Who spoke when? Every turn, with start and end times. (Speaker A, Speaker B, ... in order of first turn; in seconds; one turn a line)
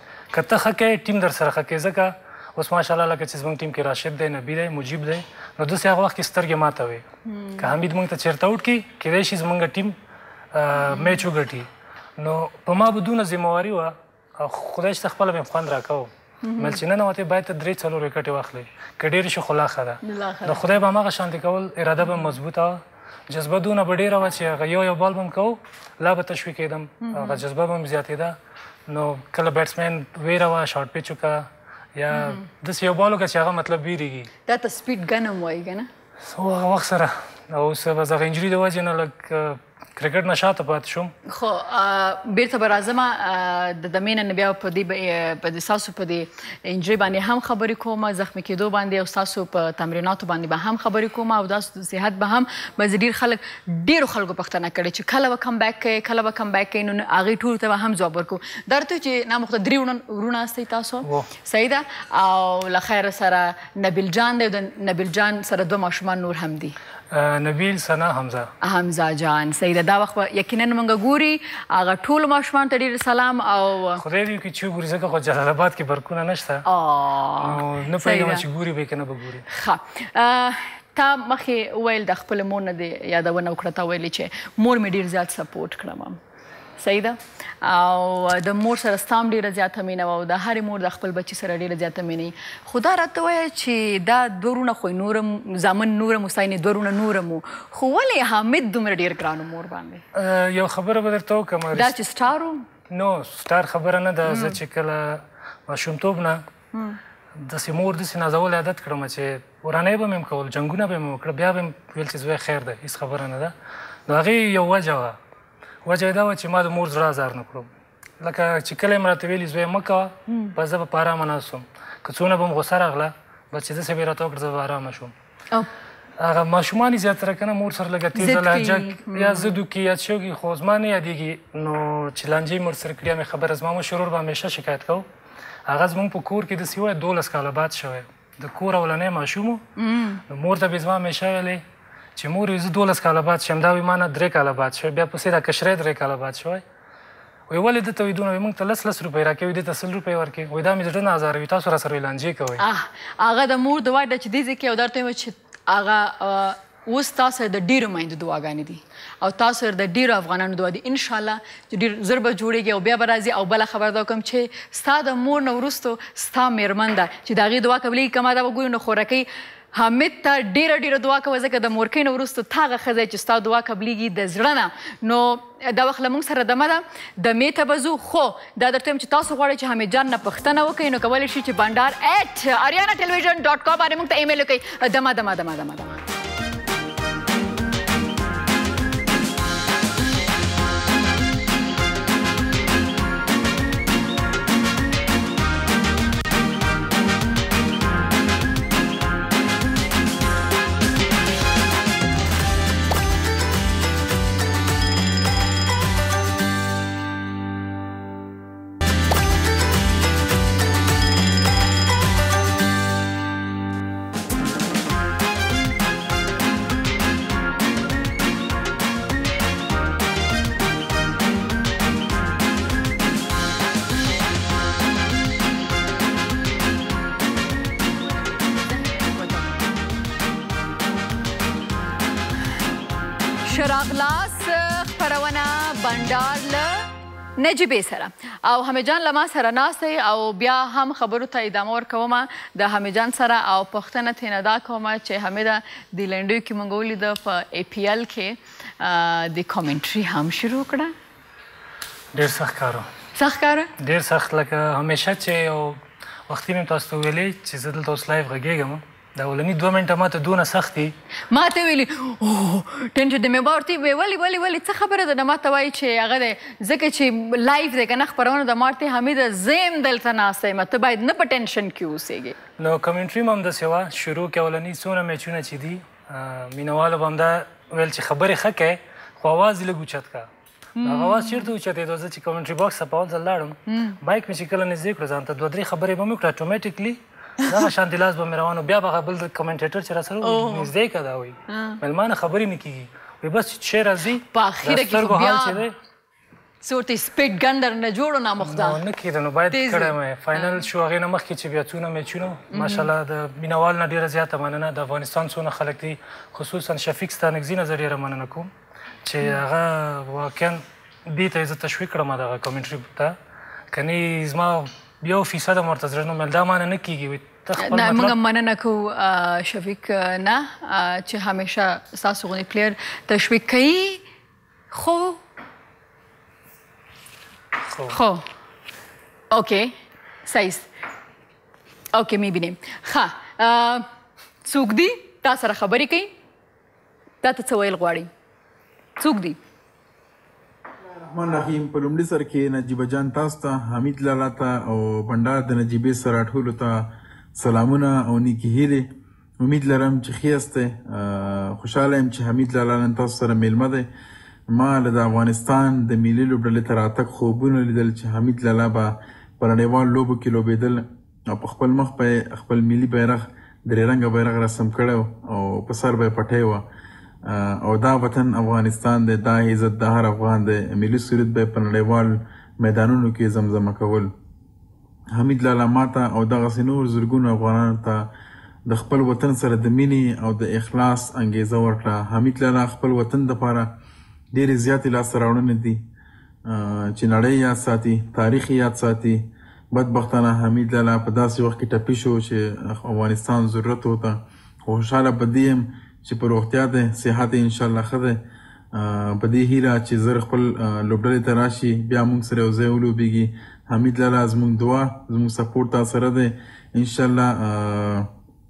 Speaker A: 0.3-7.0
Speaker B: 7.2-7.7
Speaker A: 7.6-9.9
Speaker A: 10.5-28.4
Speaker B: 10.8-11.2
Speaker B: 16.4-16.8
Speaker B: 20.0-20.7
Speaker B: 27.0-27.4
Speaker A: 28.9-34.3
Speaker B: 32.1-32.4
Speaker B: 34.5-35.9
Speaker A: 36.3-41.1
Speaker B: 41.3-66.7
Speaker A: 67.1-68.5
Speaker B: 68.6-74.0
Speaker A: 74.0-76.7
Speaker B: 76.7-78.4
Speaker A: 77.4-79.5
Speaker B: 79.5-86.2
Speaker B: 86.8-100.0
Speaker A: 100.1-101.9
Speaker B: 101.7-102.6
Speaker A: 102.9-106.4
Speaker B: 104.3-104.6
Speaker A: 107.4-113.5
Speaker A: 114.1-115.2
Speaker A: 115.8-117.7
Speaker A: 118.2-125.1
Speaker B: 120.3-120.5
Speaker A: 126.2-135.1
Speaker B: 128.2-129.5
Speaker A: 135.7-139.6
Speaker B: 139.8-140.2
Speaker A: 140.3-141.6
Speaker A: 142.2-146.6
Speaker A: 147.5-152.6
Speaker B: 152.6-186.0
Speaker B: 228.7-229.5
Speaker B: 233.4-250.9
Speaker A: 252.1-252.9
Speaker B: 253.1-253.7
Speaker A: 253.8-260.9
Speaker B: 261.3-272.4
Speaker A: 272.6-280.3
Speaker B: 280.8-281.5
Speaker A: 280.8-295.7
Speaker B: 283.7-284.0
Speaker B: 290.2-290.7
Speaker B: 291.5-291.8
Speaker B: 294.3-295.6
Speaker B: 296.6-298.8
Speaker A: 298.4-308.5
Speaker B: 299.5-300.6
Speaker B: 302.5-302.9
Speaker A: 309.0-313.1
Speaker A: 313.7-318.1
Speaker B: 317.6-324.0
Speaker B: 324.7-325.2
Speaker A: 327.6-327.9
Speaker B: 327.9-328.2
Speaker B: 329.3-329.7
Speaker B: 330.2-330.6
Speaker B: 331.9-333.9
Speaker B: 334.4-336.1
Speaker B: 337.2-338.1
Speaker B: 339.0-339.4
Speaker C: 341.1-348.9
Speaker C: 349.4-353.9
Speaker C: 354.5-366.6
Speaker C: 367.2-374.1
Speaker C: 375.1-378.1
Speaker C: 378.7-383.7
Speaker C: 384.3-385.8
Speaker C: 386.5-398.2
Speaker C: 398.7-408.1